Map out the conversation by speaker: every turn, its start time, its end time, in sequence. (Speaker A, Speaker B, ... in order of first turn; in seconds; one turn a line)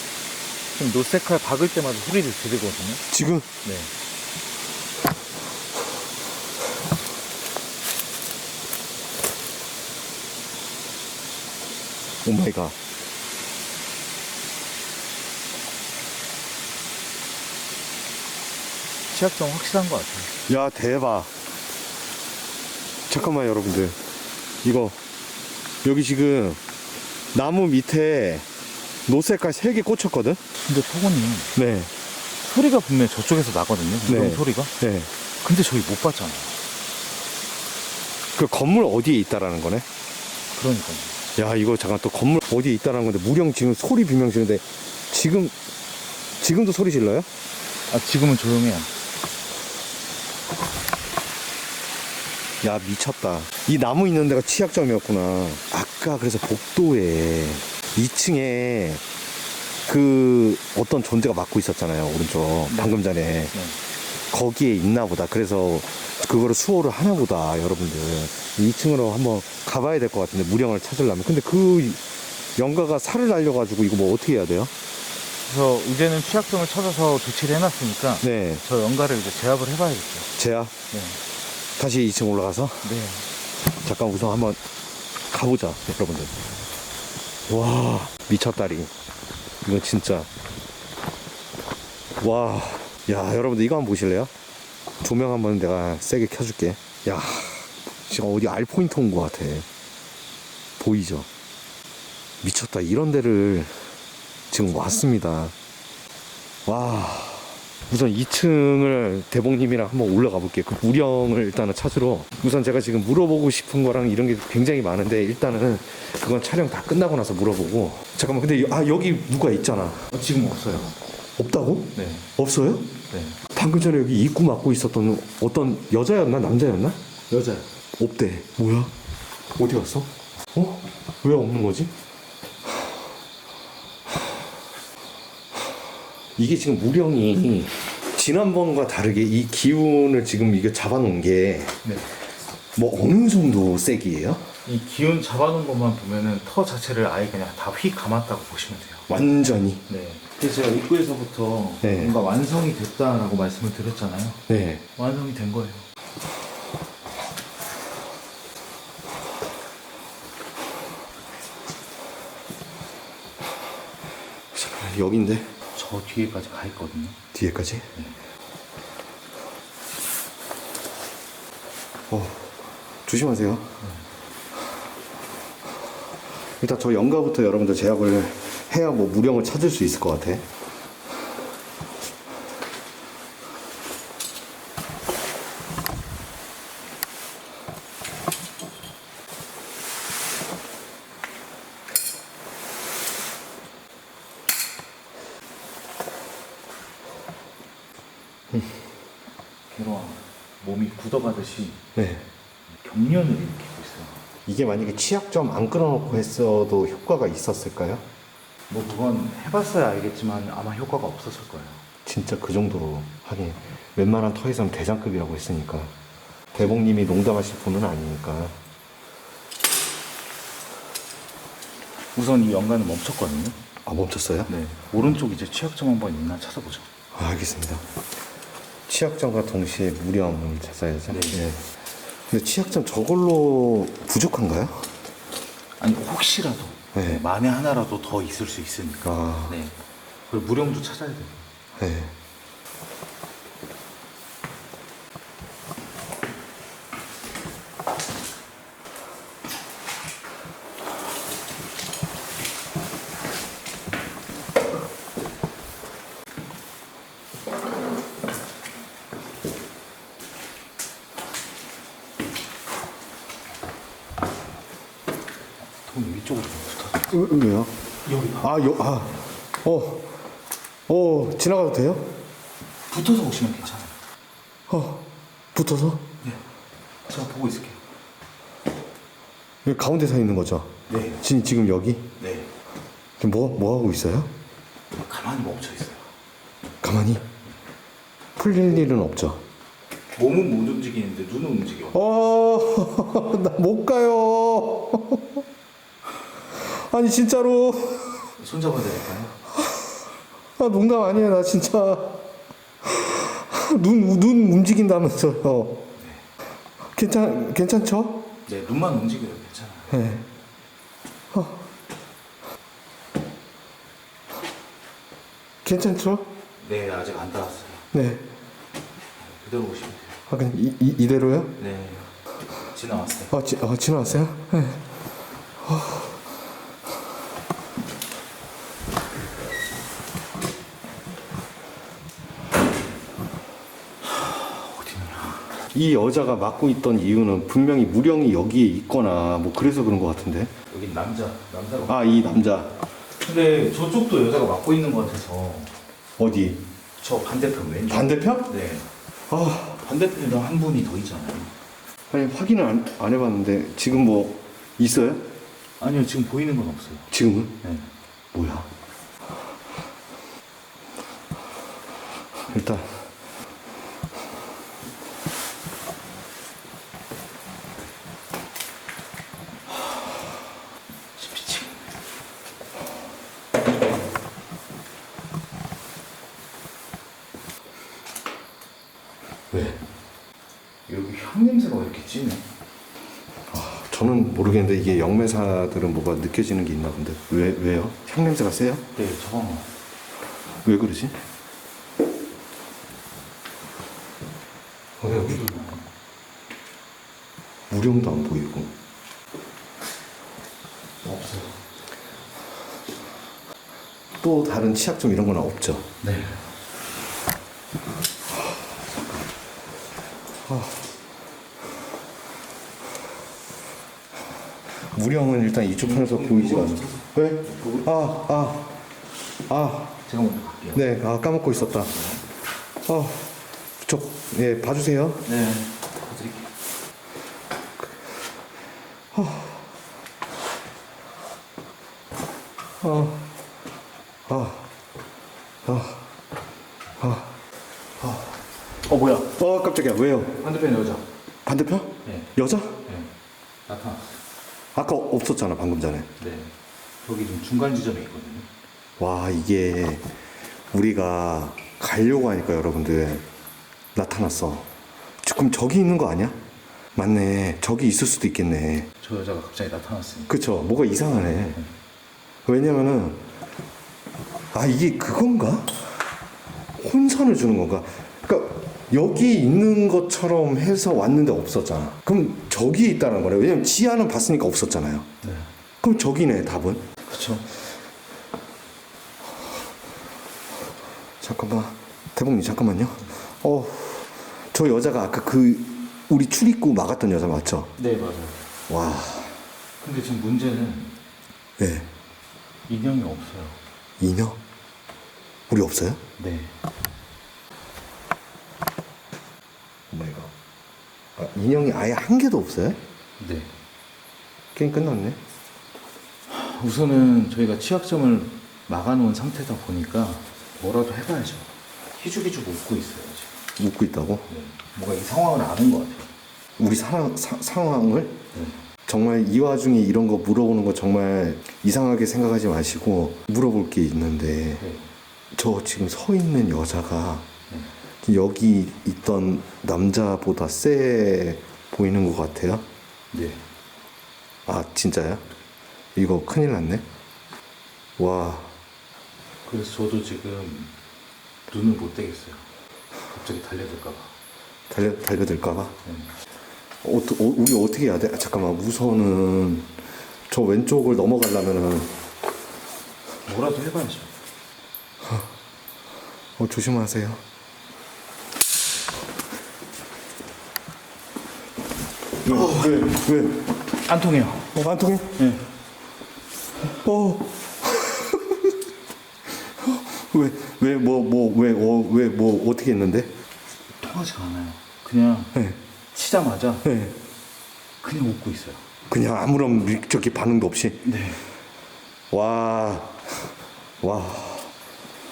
Speaker A: 0.8-3.0
Speaker B: 3.1-3.5
Speaker A: 3.6-3.9
Speaker B: 12.2-12.8
Speaker A: 19.1-20.3
Speaker B: 20.5-21.3
Speaker B: 23.1-24.0
Speaker B: 24.6-25.0
Speaker B: 25.8-26.6
Speaker B: 27.3-28.5
Speaker B: 29.1-30.4
Speaker A: 30.6-31.5
Speaker B: 31.6-31.9
Speaker A: 32.4-34.7
Speaker B: 34.1-35.1
Speaker A: 35.4-36.5
Speaker B: 38.4-39.9
Speaker A: 40.5-41.1
Speaker B: 41.4-45.5
Speaker B: 46.4-47.3
Speaker A: 47.9-48.9
Speaker B: 52.6-59.0
Speaker B: 59.9-63.5
Speaker A: 62.7-63.0
Speaker B: 64.3-72.0
Speaker B: 72.6-74.7
Speaker A: 75.5-80.3
Speaker B: 78.2-78.6
Speaker B: 80.4-80.7
Speaker A: 80.9-81.2
Speaker B: 81.8-82.9
Speaker A: 82.8-83.3
Speaker B: 83.7-84.6
Speaker B: 85.3-86.4
Speaker B: 87.5-88.9
Speaker B: 89.6-90.3
Speaker B: 92.2-94.3
Speaker B: 95.0-99.7
Speaker B: 100.8-101.3
Speaker B: 102.4-103.8
Speaker B: 104.5-105.5
Speaker B: 106.7-120.1
Speaker A: 120.1-121.0
Speaker B: 121.4-122.9
Speaker A: 122.0-122.3
Speaker A: 123.1-123.4
Speaker B: 123.5-127.0
Speaker A: 127.3-127.7
Speaker B: 128.0-128.9
Speaker B: 129.6-131.9
Speaker B: 136.4-141.8
Speaker B: 142.8-144.5
Speaker A: 144.7-149.1
Speaker B: 149.1-149.8
Speaker A: 149.9-154.4
Speaker B: 151.8-152.2
Speaker B: 154.5-154.8
Speaker A: 155.0-155.9
Speaker B: 164.5-165.5
Speaker A: 165.7-167.2
Speaker B: 167.3-167.9
Speaker B: 172.1-172.5
Speaker B: 173.1-173.8
Speaker B: 176.6-180.4
Speaker B: 198.5-198.8
Speaker A: 199.7-201.8
Speaker B: 201.9-202.3
Speaker A: 202.8-204.2
Speaker B: 204.5-208.1
Speaker A: 208.7-211.8
Speaker B: 212.1-215.9
Speaker B: 216.5-218.6
Speaker A: 222.1-223.6
Speaker B: 223.8-224.5
Speaker A: 224.5-226.9
Speaker B: 227.1-227.8
Speaker B: 228.9-231.6
Speaker A: 231.1-231.4
Speaker B: 232.3-234.9
Speaker A: 235.8-239.8
Speaker B: 236.9-237.2
Speaker B: 239.0-239.6
Speaker A: 240.3-241.4
Speaker B: 241.8-242.2
Speaker A: 265.8-267.1
Speaker B: 267.1-267.7
Speaker A: 268.1-269.2
Speaker B: 268.4-270.1
Speaker B: 270.9-272.2
Speaker A: 272.9-273.9
Speaker B: 274.7-276.1
Speaker A: 277.1-277.8
Speaker B: 279.6-282.1
Speaker A: 280.9-281.2
Speaker A: 282.2-282.5
Speaker B: 283.2-284.3
Speaker A: 284.9-286.1
Speaker B: 286.8-287.2
Speaker B: 288.4-289.4
Speaker A: 290.1-292.0
Speaker B: 291.9-295.4
Speaker B: 296.5-298.3
Speaker A: 298.4-299.4
Speaker B: 299.5-300.0
Speaker B: 300.6-302.2
Speaker B: 302.8-305.9
Speaker A: 306.0-306.2
Speaker B: 306.8-308.3
Speaker A: 308.5-309.9
Speaker B: 309.9-310.2
Speaker B: 311.3-311.6
Speaker B: 315.6-316.3
Speaker A: 316.6-317.9
Speaker B: 317.9-318.2
Speaker A: 319.2-320.2
Speaker B: 320.3-321.6
Speaker A: 321.6-322.1
Speaker A: 322.7-323.3
Speaker B: 323.3-324.8
Speaker B: 325.6-326.1
Speaker A: 334.1-335.5
Speaker B: 335.7-340.5
Speaker A: 340.7-342.4
Speaker B: 341.9-342.7
Speaker A: 343.2-345.7
Speaker B: 346.2-346.6
Speaker A: 347.0-348.9
Speaker B: 347.9-348.5
Speaker B: 349.3-349.8
Speaker A: 349.8-351.5
Speaker B: 352.1-355.3
Speaker A: 355.8-357.1
Speaker B: 357.1-357.6
Speaker A: 357.6-357.9
Speaker B: 358.3-358.7
Speaker B: 362.5-363.1
Speaker A: 371.1-371.9
Speaker B: 379.5-379.8
Speaker A: 380.9-382.5
Speaker B: 383.5-388.9
Speaker A: 388.9-389.7
Speaker B: 390.6-391.2
Speaker B: 395.0-395.3
Speaker A: 395.0-395.9
Speaker B: 397.7-398.8
Speaker A: 401.1-401.5
Speaker B: 404.2-405.9
Speaker A: 406.0-406.5
Speaker B: 410.4-410.8
Speaker B: 414.9-418.7
Speaker A: 415.8-417.9
Speaker B: 419.5-419.9
Speaker A: 420.1-420.9
Speaker B: 420.7-421.9
Speaker A: 421.5-422.2
Speaker B: 422.9-425.2
Speaker A: 425.2-426.5
Speaker B: 429.1-429.6
Speaker B: 432.8-433.3
Speaker B: 434.3-434.7
Speaker B: 435.6-436.1
Speaker B: 437.0-437.3
Speaker A: 438.8-439.3
Speaker B: 439.3-440.4
Speaker A: 440.4-441.1
Speaker B: 441.4-442.8
Speaker A: 442.1-442.3
Speaker A: 442.9-443.1
Speaker A: 443.7-444.2
Speaker B: 444.7-446.1
Speaker A: 446.2-448.5
Speaker B: 449.0-450.1
Speaker B: 450.7-453.2
Speaker B: 453.9-454.7
Speaker B: 455.2-456.4
Speaker B: 456.9-458.9
Speaker A: 459.0-460.4
Speaker B: 460.3-461.6
Speaker A: 461.2-461.7
Speaker B: 462.5-463.2
Speaker B: 464.5-466.0
Speaker B: 466.8-475.1
Speaker A: 475.2-475.5
Speaker B: 475.8-476.9
Speaker A: 477.1-477.6
Speaker B: 481.2-487.7
Speaker A: 487.8-488.4
Speaker B: 488.7-489.4
Speaker A: 489.8-490.9
Speaker B: 491.6-491.9
Speaker A: 492.7-493.6
Speaker B: 494.0-494.4
Speaker B: 495.5-496.0
Speaker A: 496.2-496.6
Speaker B: 499.9-500.3
Speaker B: 501.2-502.8
Speaker A: 503.2-503.6
Speaker B: 504.6-505.2
Speaker A: 506.3-513.3
Speaker B: 513.6-514.3
Speaker A: 514.3-516.1
Speaker B: 516.6-518.2
Speaker A: 518.3-518.6
Speaker B: 518.9-524.6
Speaker A: 524.6-524.9
Speaker B: 525.3-527.3
Speaker B: 528.0-532.7
Speaker A: 533.1-533.4
Speaker B: 534.5-535.2
Speaker B: 536.0-536.9
Speaker B: 538.0-538.5
Speaker A: 539.5-540.7
Speaker A: 541.5-542.5
Speaker A: 543.1-544.1
Speaker B: 544.7-545.8
Speaker A: 545.9-546.1
Speaker B: 546.8-549.7
Speaker B: 550.3-551.9
Speaker A: 553.3-554.1
Speaker B: 555.0-555.3
Speaker B: 556.4-557.2
Speaker B: 562.2-563.5
Speaker A: 562.3-563.0
Speaker A: 563.7-564.5
Speaker B: 564.5-565.2
Speaker A: 565.2-565.5
Speaker B: 566.7-568.6
Speaker B: 569.6-573.1
Speaker A: 573.8-575.4
Speaker A: 575.9-576.7
Speaker B: 576.6-577.0
Speaker A: 577.8-578.6
Speaker B: 578.9-580.9
Speaker A: 580.9-581.2
Speaker B: 582.1-584.5